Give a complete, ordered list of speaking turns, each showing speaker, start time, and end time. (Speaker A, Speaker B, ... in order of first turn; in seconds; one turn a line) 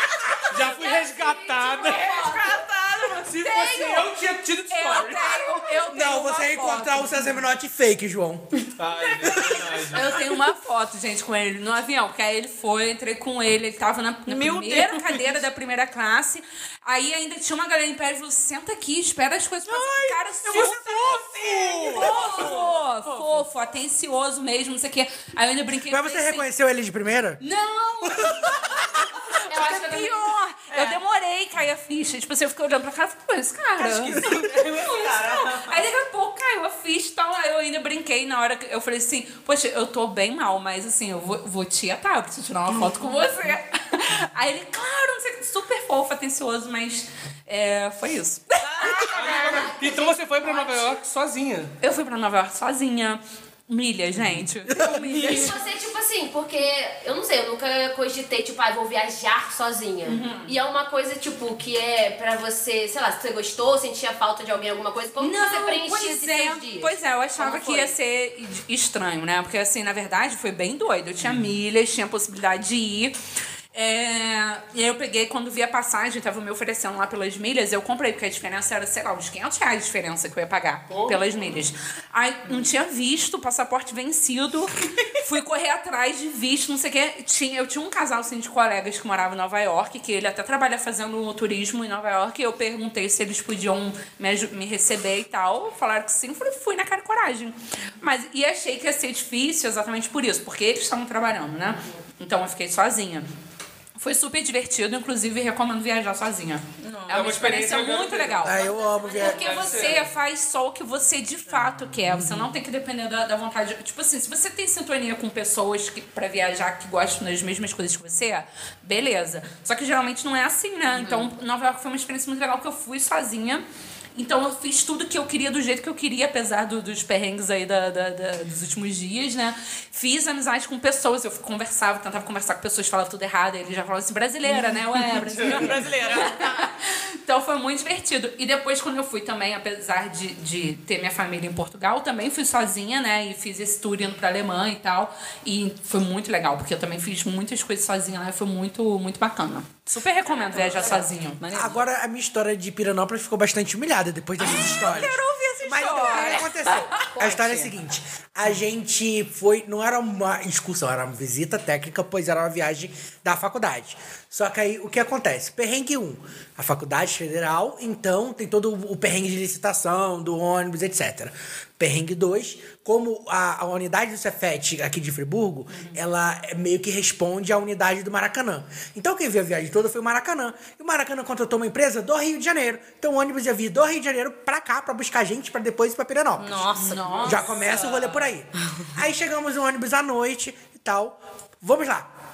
Speaker A: 0.5-2.5
Speaker B: 0.5-2.2
Speaker C: 2.0-3.4
Speaker B: 3.3-5.4
Speaker A: 3.4-4.0
Speaker D: 3.4-4.0
Speaker A: 4.7-7.4
Speaker E: 5.9-8.7
Speaker B: 8.8-10.1
Speaker A: 9.9-21.0
Speaker C: 14.3-15.3
Speaker C: 19.7-23.4
Speaker B: 21.2-22.1
Speaker A: 21.9-26.5
Speaker E: 25.9-27.4
Speaker A: 27.4-34.2
Speaker D: 29.5-30.3
Speaker C: 30.7-31.0
Speaker C: 33.8-35.8
Speaker A: 34.7-49.0
Speaker C: 48.7-49.5
Speaker D: 48.9-51.0
Speaker B: 49.1-51.7
Speaker A: 51.8-55.6
Speaker C: 54.9-55.5
Speaker D: 55.2-67.9
Speaker A: 60.0-60.6
Speaker A: 65.2-73.2
Speaker A: 73.7-103.3
Speaker B: 80.9-81.5
Speaker A: 104.0-108.6
Speaker C: 106.8-107.3
Speaker B: 107.1-108.6
Speaker E: 108.4-109.5
Speaker D: 108.6-110.0
Speaker A: 109.2-123.6
Speaker B: 109.2-110.1
Speaker C: 111.5-112.5
Speaker C: 120.9-121.3
Speaker A: 124.2-151.4
Speaker C: 135.3-136.7
Speaker C: 150.5-151.9
Speaker E: 151.5-186.7
Speaker A: 154.4-157.1
Speaker C: 156.6-157.7
Speaker A: 175.7-176.0
Speaker C: 186.4-187.5
Speaker A: 186.8-188.2
Speaker E: 187.2-192.1